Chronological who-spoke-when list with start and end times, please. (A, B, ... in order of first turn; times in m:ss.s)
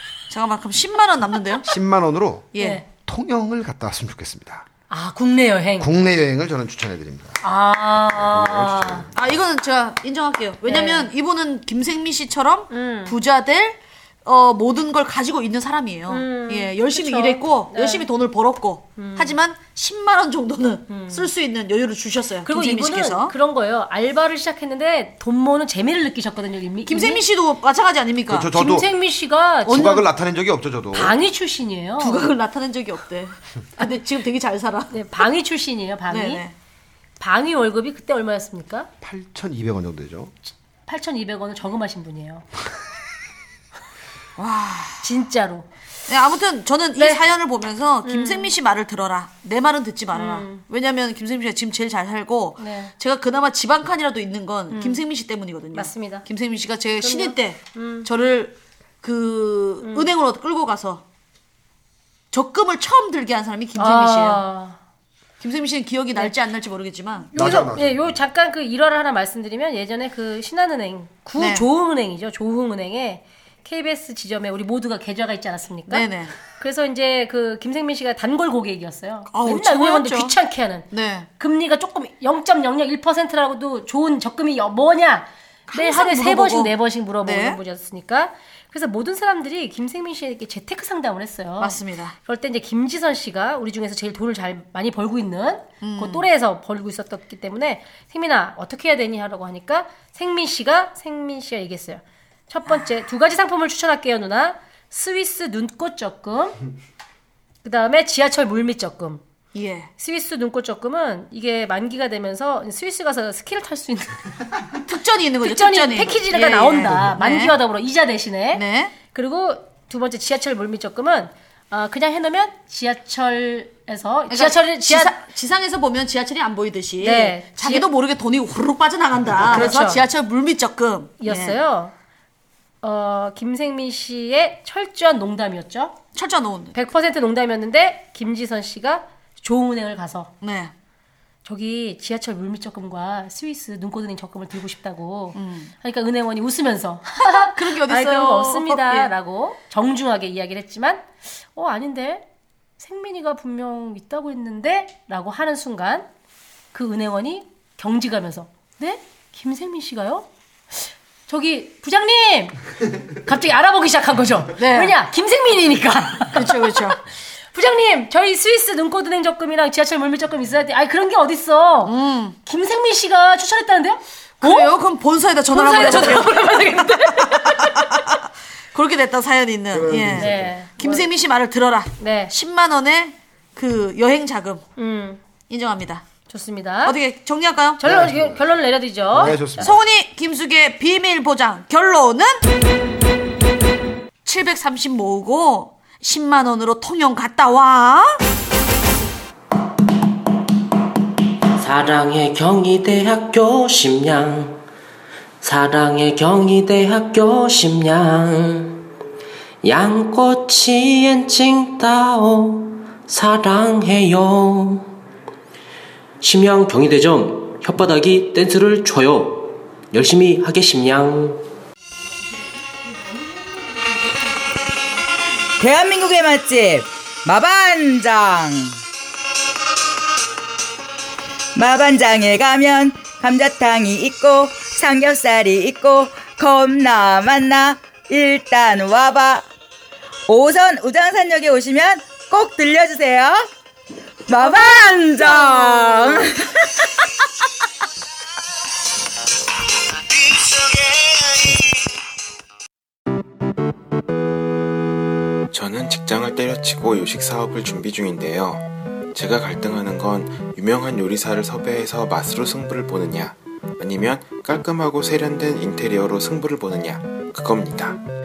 0:00.3-0:01.7 A
0:01.6-0:04.7 B
0:02.5-0:02.8 A
0:02.6-0:02.8 C
0:04.9-0:05.9 C
0:05.8-0:07.4 B
0:07.4-0:09.1 C
0:08.1-0:09.3 B
0:09.1-0:23.3 A
0:10.7-0:11.1 C
0:12.7-0:13.1 C
0:16.1-0:18.1 C
0:19.0-0:19.4 C
0:20.9-0:21.3 C
0:22.4-0:27.2 C
0:26.8-0:28.5 A
0:28.3-0:28.9 B
0:28.5-0:30.0 C
0:29.6-0:31.2 B
0:30.9-0:32.2 C
0:32.0-0:35.0 A
0:34.9-0:36.4 C
0:36.1-0:36.5 A
0:37.2-0:38.9 C
0:39.0-0:40.3 B
0:40.9-0:42.4 C
0:44.4-0:45.0 A
0:45.0-0:45.7 C
0:46.1-1:01.0 A
0:47.0-0:47.2 C
0:48.0-0:48.5 C
0:50.1-0:50.6 C
0:52.6-0:52.9 C
0:54.7-0:55.0 C
0:55.7-0:56.2 C
0:57.0-0:58.1 C
0:59.8-1:00.1 C
1:02.3-1:04.4 A
1:03.8-1:04.8 C
1:05.4-1:07.3 A
1:07.3-1:20.9 C
1:07.3-1:08.2 B
1:11.4-1:11.7 A
1:15.9-1:16.3 A
1:19.3-1:20.3 A
1:20.9-1:21.3 A
1:21.4-1:46.6 C
1:25.7-1:27.6 A
1:31.6-1:32.1 A
1:35.8-1:36.2 A
1:47.6-1:49.2 C
1:49.5-1:49.9 A
1:50.0-1:54.2 C
1:54.8-1:57.6 A
1:55.4-2:05.1 C
1:58.5-1:58.9 A
2:04.3-2:11.6 A
2:07.0-2:07.8 C
2:09.4-2:10.0 C
2:11.2-2:11.9 C
2:12.8-2:16.0 C
2:16.1-2:16.7 A
2:16.7-2:20.3 C
2:20.4-2:20.7 A
2:21.4-2:32.2 C
2:25.3-2:25.7 A
2:27.2-2:29.1 A
2:32.8-2:36.1 C
2:36.7-2:42.6 C
2:43.2-2:46.5 C
2:44.6-2:45.0 A
2:46.3-2:47.0 A
2:47.5-2:51.9 C
2:51.8-2:52.4 A
2:52.4-2:54.7 C
2:54.4-2:56.7 A
2:55.5-2:57.9 C
2:57.3-3:04.6 A
2:59.7-3:00.5 B
3:00.2-3:01.1 C
3:02.0-3:02.3 C
3:04.8-3:05.2 C
3:05.5-3:06.0 A
3:06.3-3:07.0 C
3:06.8-3:07.8 A
3:07.8-3:09.7 C
3:07.8-3:08.5 B
3:09.1-3:09.8 B
3:09.6-3:12.4 A
3:14.2-3:18.2 A
3:21.6-3:24.6 D
3:25.4-3:28.8 D
3:29.6-3:34.9 D
3:36.2-3:41.4 D
3:45.6-3:48.8 E
3:51.5-3:59.4 E
4:00.3-4:03.4 E
4:04.3-4:06.4 E
4:05.2-4:06.0 C
4:15.5-4:28.0 F